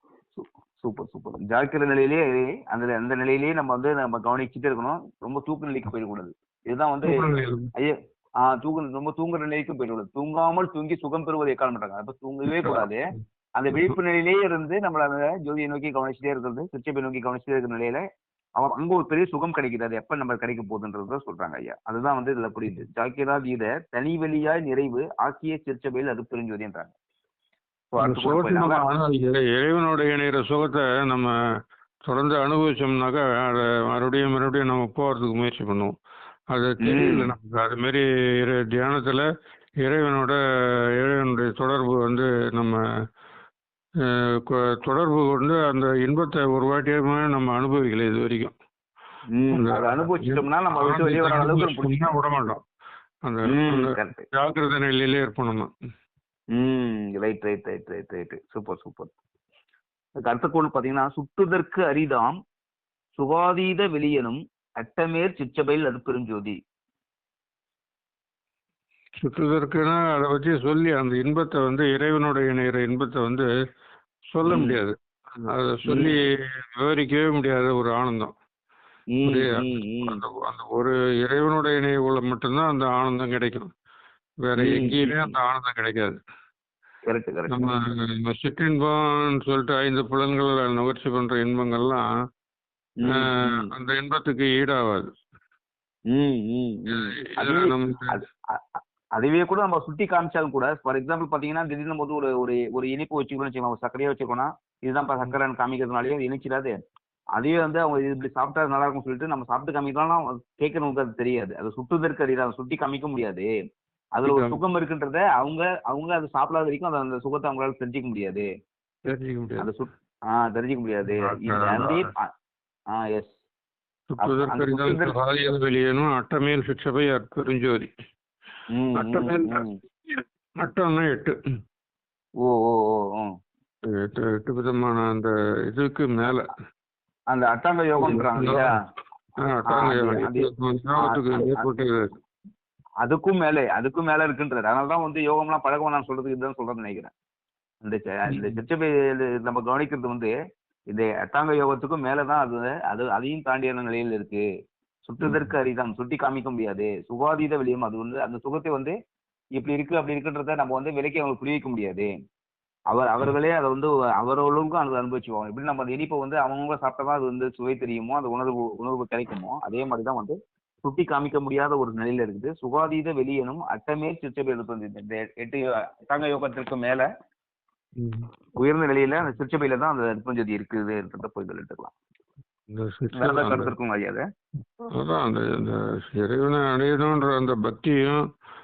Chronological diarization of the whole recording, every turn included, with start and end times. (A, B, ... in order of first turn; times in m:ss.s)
0:00.4-0:13.0 A
0:07.0-0:07.7 B
0:12.5-0:12.8 B
0:13.6-0:18.0 A
0:18.6-0:26.9 A
0:27.9-0:28.8 A
0:28.0-0:31.3 B
0:32.1-0:36.0 B
0:36.5-0:39.3 B
0:36.8-0:37.3 A
0:39.8-0:40.4 B
0:41.0-0:42.8 B
0:44.0-0:48.5 B
0:49.3-0:52.1 A
0:49.5-0:52.6 B
0:53.2-0:55.7 B
0:53.4-0:54.2 A
0:56.5-0:59.1 A
1:00.2-1:02.4 A
1:03.2-1:06.6 A
1:09.2-1:13.5 B
1:14.3-1:15.0 B
1:14.5-1:14.8 A
1:15.5-1:18.3 B
1:15.9-1:16.1 A
1:19.1-1:20.2 A
1:19.3-1:23.7 B
1:24.4-1:26.2 B
1:24.6-1:25.3 A
1:27.1-1:27.8 A
1:27.5-1:32.1 B
1:33.0-1:33.7 A
1:33.1-1:35.1 B
1:36.1-1:46.7 A
1:36.9-1:38.2 B
1:47.4-1:53.5 A
1:54.2-1:58.5 A
1:54.2-1:54.6 B
1:59.0-1:59.7 B
1:59.6-2:02.3 A
2:01.1-2:02.1 B
2:02.9-2:03.4 A
2:04.1-2:07.9 B
2:04.2-2:05.1 A
2:08.7-2:09.8 A
2:09.0-2:11.4 B
2:12.4-2:13.3 A
2:13.9-2:16.5 B
2:17.3-2:18.7 A
2:18.0-2:18.7 B
2:19.4-2:22.2 B
2:19.7-2:21.8 A
2:23.0-2:27.1 A
2:27.8-2:30.3 A
2:28.3-2:28.6 B
2:30.9-2:34.4 A
2:35.0-2:39.0 A
2:35.2-2:35.5 B
2:39.6-2:42.1 A
2:42.9-2:57.1 A
2:58.0-2:58.3 B
2:58.6-3:01.9 A
3:02.7-3:03.7 B
3:03.2-3:04.2 A
3:04.8-3:08.2 B